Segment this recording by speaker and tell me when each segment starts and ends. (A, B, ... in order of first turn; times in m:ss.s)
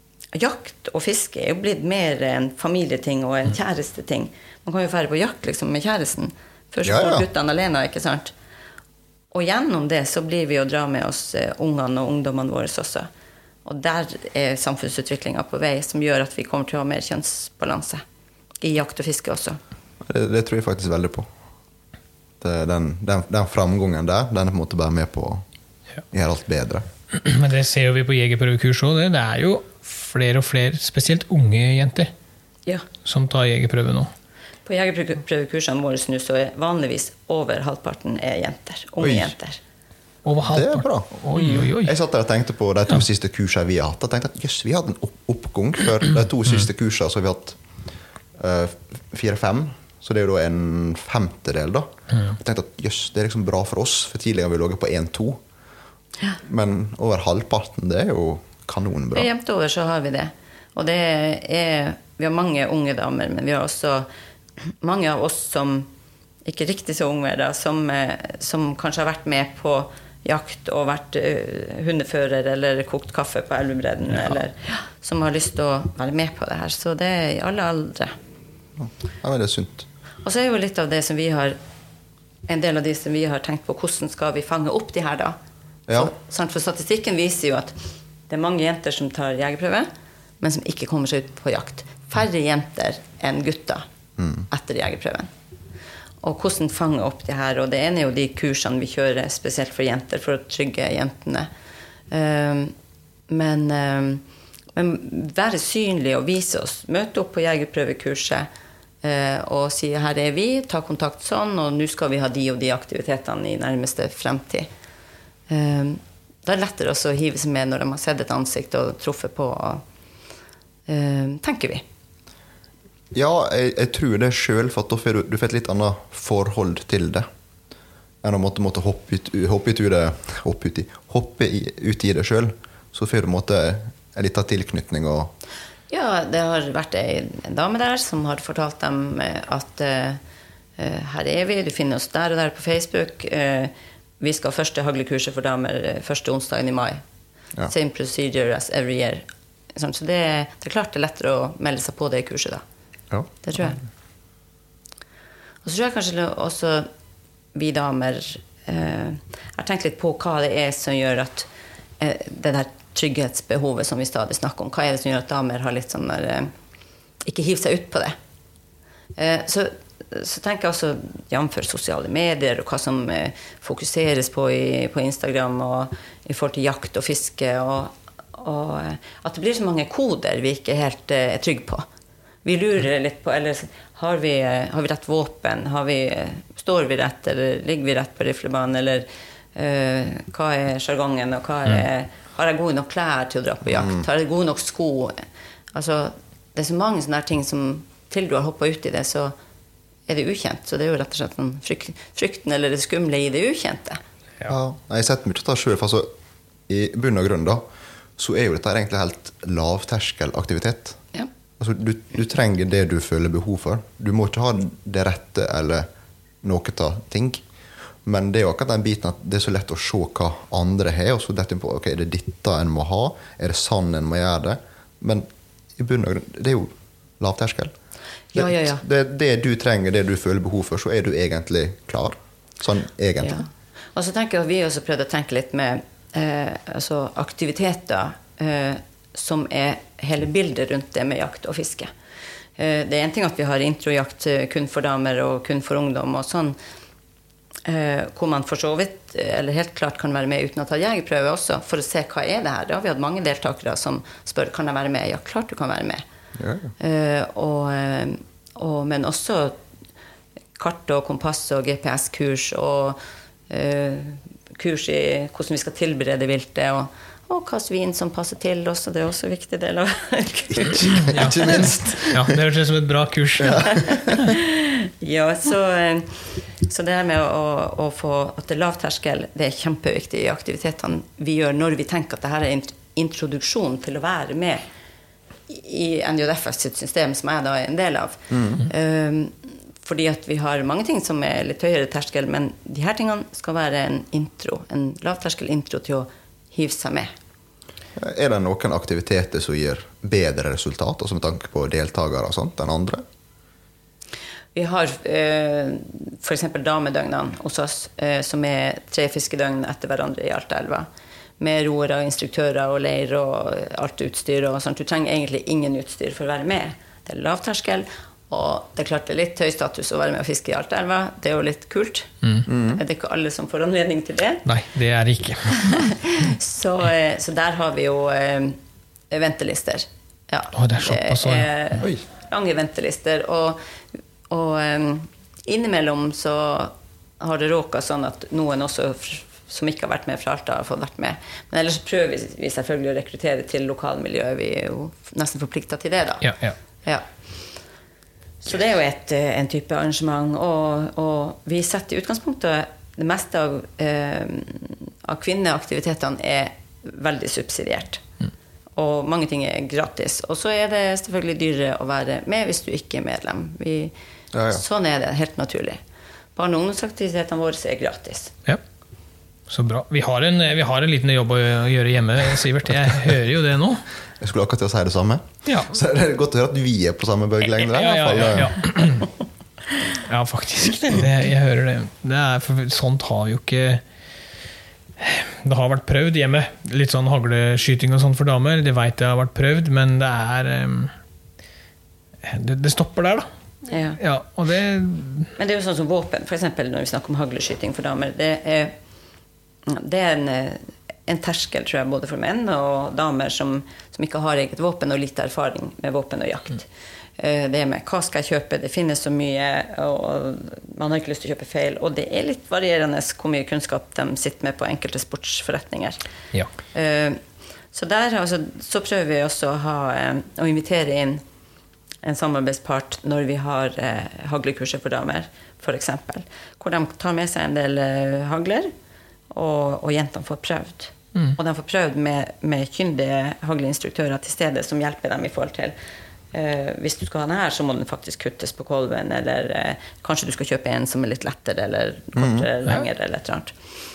0:00.3-0:08.3 A
0:06.8-0:07.2 B
0:09.3-0:13.1 A
0:13.6-0:18.0 A
0:18.6-0:19.6 A
0:20.0-0:21.3 B
0:22.4-0:25.4 B
0:26.1-0:26.9 B
0:27.1-0:32.1 C
0:33.0-0:34.1 C
0:34.7-0:39.6 A
0:39.0-0:39.3 B
0:40.2-0:42.0 C
0:40.5-0:47.6 B
0:48.4-0:55.4 B
0:56.4-0:59.3 B
0:59.1-1:04.1 A
1:04.6-1:05.9 A
1:06.4-1:18.2 A
1:18.8-1:19.9 B
1:20.2-1:21.6 A
1:22.5-1:25.4 A
1:25.9-1:26.1 B
1:25.9-1:27.8 A
1:28.3-1:29.9 A
1:30.4-1:33.8 A
1:34.2-1:34.5 B
1:34.5-1:35.3 A
1:36.2-1:41.5 A
1:42.1-1:42.7 A
1:43.3-1:44.2 A
1:44.8-1:48.5 A
1:49.0-1:54.7 A
1:55.5-1:59.8 A
2:00.9-2:01.8 A
2:03.1-2:07.3 B
2:08.2-2:15.3 B
2:15.9-2:20.2 A
2:20.8-2:27.0 A
2:27.7-2:32.6 A
2:33.1-2:33.7 B
2:33.4-2:33.8 A
2:35.6-2:36.9 A
2:37.5-2:41.5 A
2:42.0-2:46.5 A
2:47.2-2:48.2 A
2:49.2-3:01.9 A
3:02.4-3:19.3 A
3:13.7-3:14.1 B
3:20.1-3:24.0 A
3:24.4-3:26.1 B
3:26.7-3:27.6 B
3:28.2-3:31.0 B
3:31.6-3:35.9 B
3:36.4-3:37.4 B
3:38.0-3:47.7 B
3:48.3-3:48.8 A
3:48.3-3:53.4 B
3:53.2-4:01.9 A
4:02.6-4:06.6 A
4:07.6-4:16.0 A
4:16.4-4:16.7 B
4:16.8-4:19.6 A
4:20.6-4:31.7 A
4:30.6-4:32.2 B
4:31.0-4:33.9 C
4:33.4-4:34.2 B
4:33.6-4:44.6 A
4:45.5-4:57.1 A
4:48.3-4:48.6 B
4:58.0-5:03.0 B
5:04.6-5:10.9 A
5:11.4-5:24.4 A
5:22.5-5:22.8 B
5:24.4-5:25.9 C
5:25.6-5:28.6 A
5:29.1-5:33.6 A
5:30.6-5:31.5 C
5:34.3-5:46.3 A
5:46.2-5:46.6 C
5:48.4-5:58.0 A
5:58.8-6:03.9 A
6:04.3-6:04.6 B
6:04.5-6:05.8 A
6:06.4-6:08.3 A
6:09.5-6:13.9 C
6:14.2-6:18.6 B
6:15.5-6:15.7 C
6:17.6-6:19.1 C
6:19.9-6:23.8 C
6:25.0-6:31.0 C
6:32.2-6:33.3 C
6:33.7-6:34.0 A
6:34.0-6:35.3 C
6:35.4-6:38.7 A
6:39.7-6:46.7 A
6:47.2-6:56.0 A
6:56.7-6:57.2 A
6:57.7-7:01.2 A
7:02.0-7:08.7 A
7:09.3-7:15.8 A
7:16.3-7:23.5 A
7:22.2-7:22.5 B